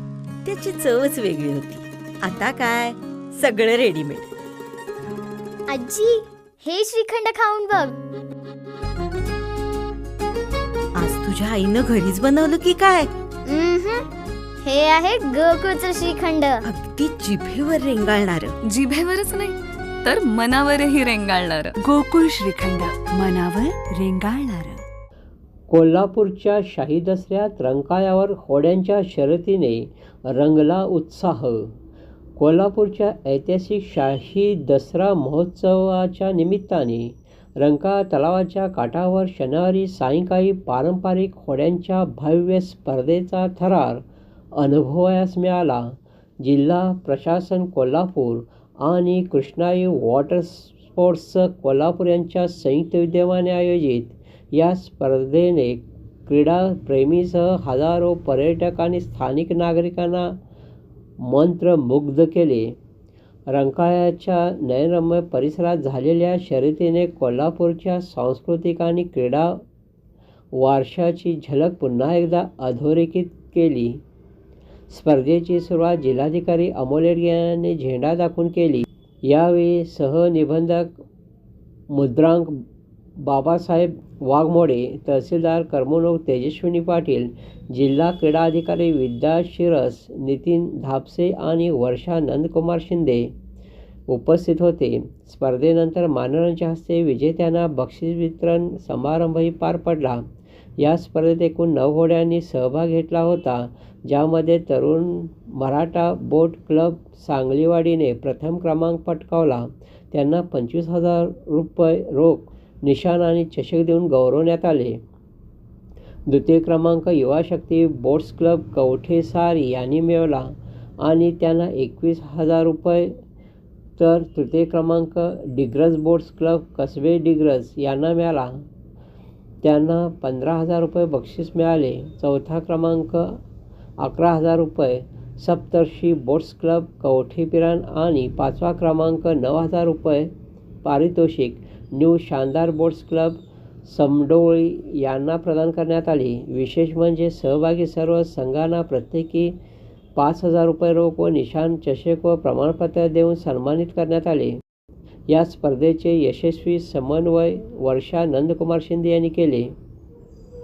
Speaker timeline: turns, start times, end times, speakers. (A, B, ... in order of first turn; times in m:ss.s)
0:00.4-0:04.3 A
0:05.7-0:08.0 B
0:10.9-0:13.1 A
0:13.4-0:14.1 B
0:14.6-0:16.6 B
0:16.6-0:18.6 A
0:18.6-0:21.8 C
0:21.8-0:24.8 D
0:25.7-0:31.7 E
0:32.4-0:44.0 E
0:44.6-1:00.4 E
1:01.2-1:02.8 E
1:03.5-1:09.6 E
1:10.5-1:14.0 E
1:14.9-1:21.0 E
1:21.9-1:22.6 E
1:23.2-1:33.3 E
1:34.1-1:40.2 E
1:40.8-1:55.0 E
1:56.3-2:03.1 E
2:04.0-2:08.6 E
2:09.6-2:13.4 E
2:14.0-2:20.3 E
2:20.8-2:29.6 E
2:30.1-2:34.6 E
2:35.3-2:39.7 E